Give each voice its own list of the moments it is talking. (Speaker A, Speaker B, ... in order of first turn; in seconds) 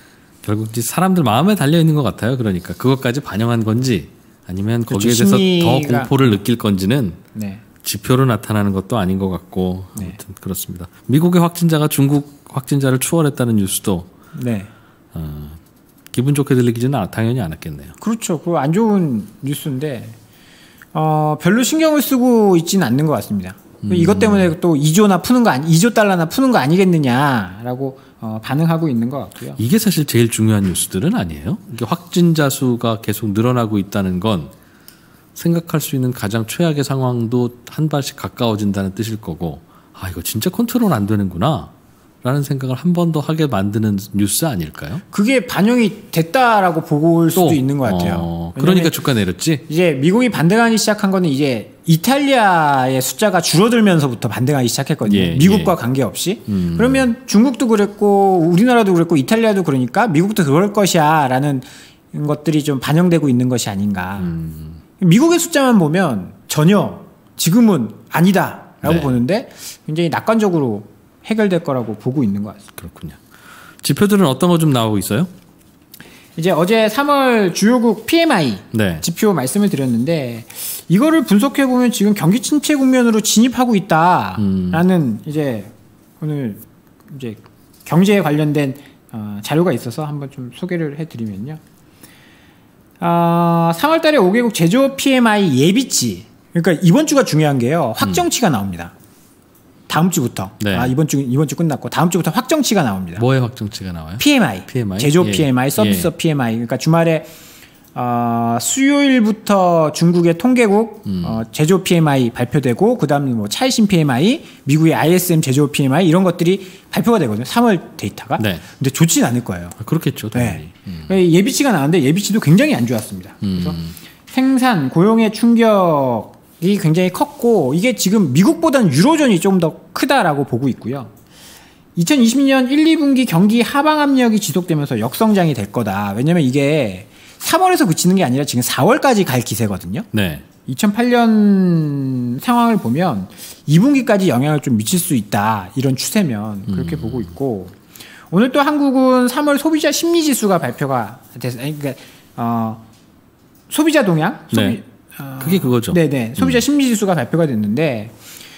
Speaker A: 0.4-7.2, 7.8-14.1, 15.1-15.6, 16.1-17.9, 23.8-24.5, 29.6-34.5, 35.4-41.7, 42.2-45.0, 47.4-49.6, 55.0-55.8, 56.5-57.1, 64.2-64.8, 68.8-69.2, 72.8-73.2, 73.8-75.3, 78.7-79.0, 84.4-84.8, 100.6-100.9, 103.2-106.1, 111.1-111.4, 118.4-118.6, 119.8-121.1, 123.4-123.9, 140.1-140.4, 146.7-147.3, 154.5-154.8, 155.4-156.6
Speaker B: 4.9-6.4, 7.3-7.6, 14.3-14.7, 18.0-20.2, 20.9-29.6, 45.1-49.0, 49.7-64.4, 65.0-72.7, 76.4-91.6, 93.0-98.9, 99.9-103.2, 104.2-107.3, 107.9-119.8, 120.3-131.1, 132.0-140.1, 140.7-147.8, 148.3-152.8, 153.7-158.2